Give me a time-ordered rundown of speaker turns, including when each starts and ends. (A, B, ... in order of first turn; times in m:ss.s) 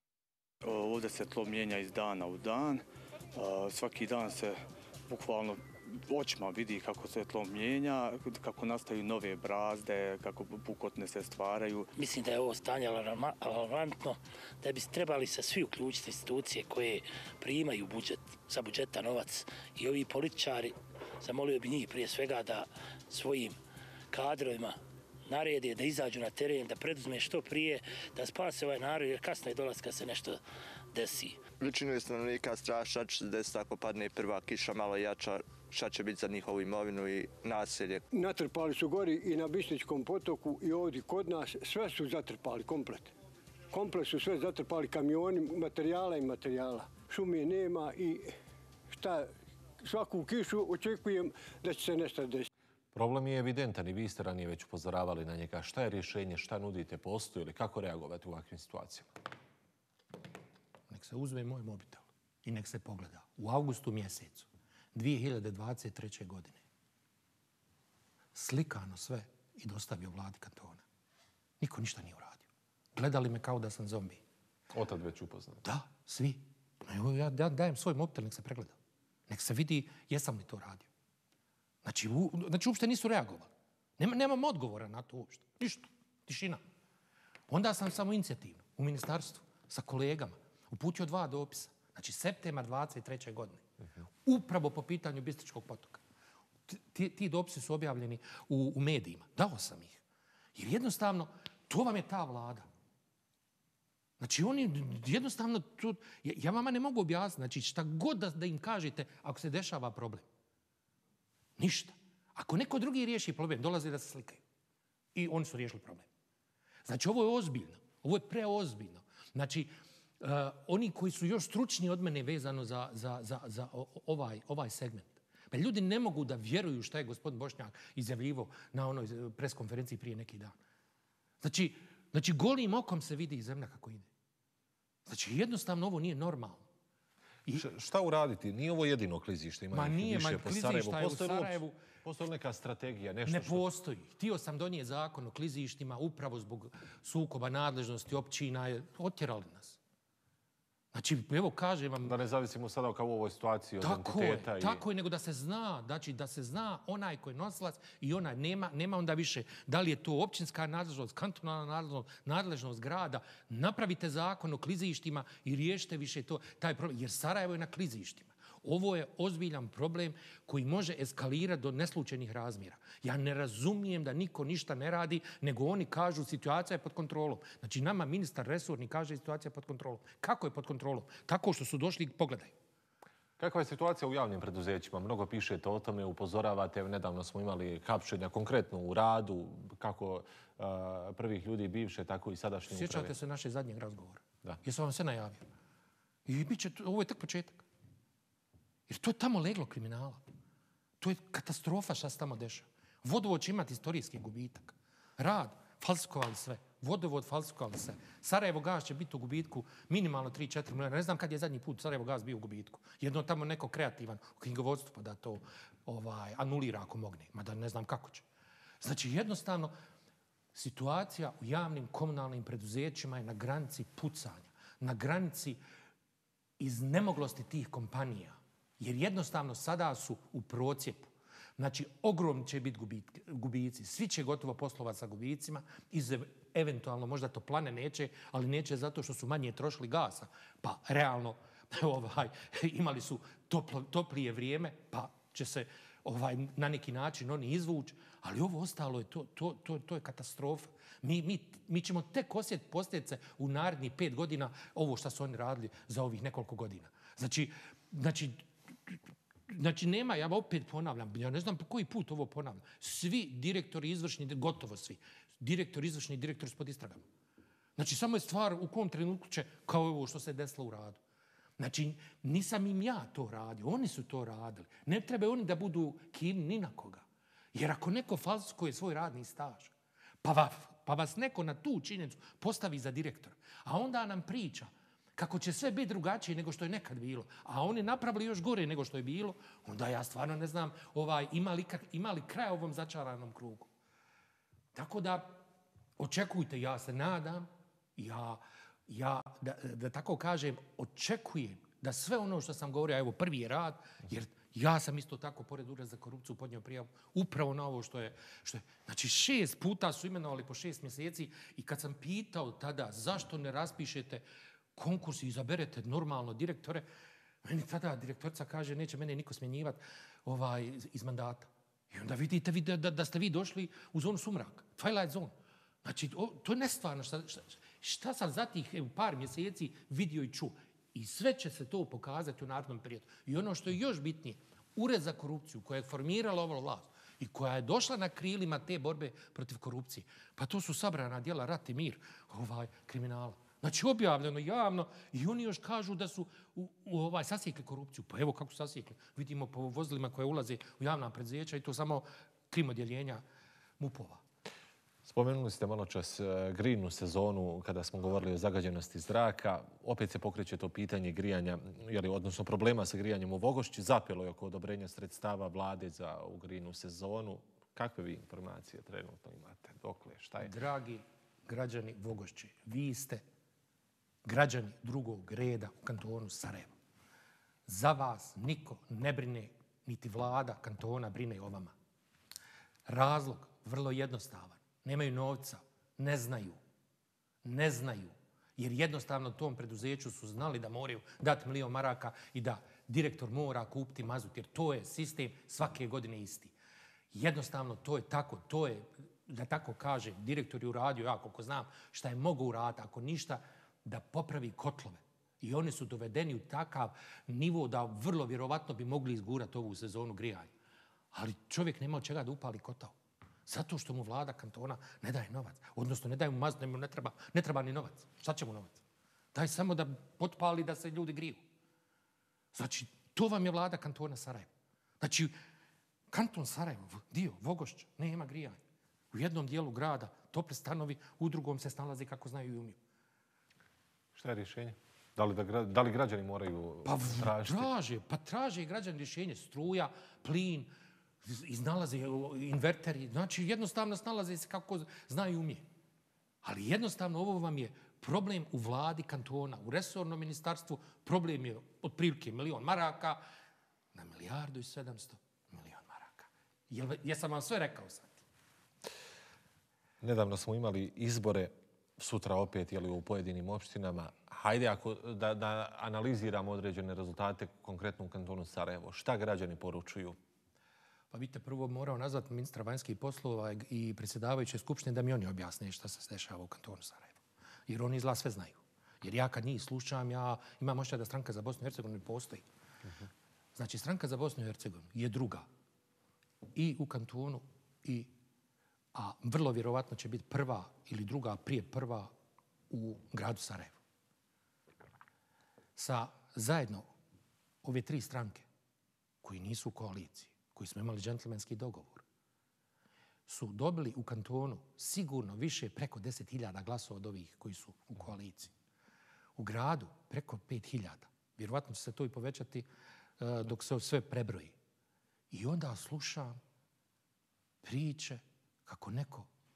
0:00.6-0:02.8 A
0:03.3-0:11.9 A
0:12.0-0:23.6 B
0:24.1-0:30.4 B
0:30.9-0:31.4 B
0:31.6-0:38.0 C
0:38.1-0:43.1 D
0:43.7-0:48.3 D
0:48.9-0:49.3 D
0:49.8-0:52.5 D
0:52.9-0:59.1 E
1:00.9-1:06.6 F
1:08.3-1:10.8 F
1:11.6-1:14.2 F
1:14.7-1:15.6 E
1:15.6-1:18.8 F
1:19.3-1:20.9 F
1:21.8-1:26.6 F
1:27.5-1:33.6 F
1:34.2-1:36.0 F
1:36.7-1:40.0 F
1:40.6-1:42.7 F
1:44.2-1:50.2 F
1:51.6-1:54.4 F
1:55.2-1:56.1 F
1:56.9-1:59.7 F
2:00.2-2:10.5 F
2:11.4-2:14.1 F
2:15.1-2:16.7 F
2:17.6-2:23.7 E
2:19.7-2:21.8 F
2:23.2-2:29.8 F
2:30.9-2:32.2 F
2:32.0-2:34.8 E
2:33.8-3:02.5 F
3:03.4-3:13.1 E
3:12.7-3:15.4 F
3:16.2-3:17.6 F
3:18.9-3:20.2 F
3:21.0-3:38.2 F
3:38.8-3:39.7 F
3:40.6-3:45.6 F
3:46.6-4:19.0 F
4:19.5-4:27.0 F
4:27.8-4:31.0 F
4:31.6-4:39.7 F
4:40.2-4:53.7 F
4:54.8-4:55.4 F
4:56.0-5:14.2 F
5:14.8-5:16.8 F
5:17.4-5:25.3 F
5:25.8-5:53.2 F
5:53.8-5:54.2 F
5:55.0-6:10.5 E
6:10.4-6:13.2 F
6:14.2-6:16.7 F
6:17.7-6:21.7 F
6:22.9-6:26.6 F
6:27.4-6:36.6 F
6:37.1-6:50.5 F
6:51.1-6:52.9 F
6:53.5-6:58.8 F
6:59.3-7:01.4 F
7:02.5-7:04.5 F
7:05.0-7:05.3 F
7:06.1-7:08.6 F
7:09.1-7:12.8 F
7:14.1-7:17.7 E
7:16.8-7:20.7 F
7:21.2-7:25.6 F
7:26.4-7:33.2 F
7:33.9-7:38.2 F
7:40.0-7:50.2 E
7:51.1-8:02.4 F
8:03.6-8:05.4 F
8:06.6-8:08.1 F
8:08.9-8:12.1 F
8:12.7-8:13.8 F
8:15.8-8:16.9 F
8:17.6-8:18.5 F
8:19.2-8:22.0 F
8:23.3-8:28.5 F
8:29.4-8:32.7 F
8:33.2-8:34.6 F
8:35.3-8:36.4 F
8:37.6-8:39.3 F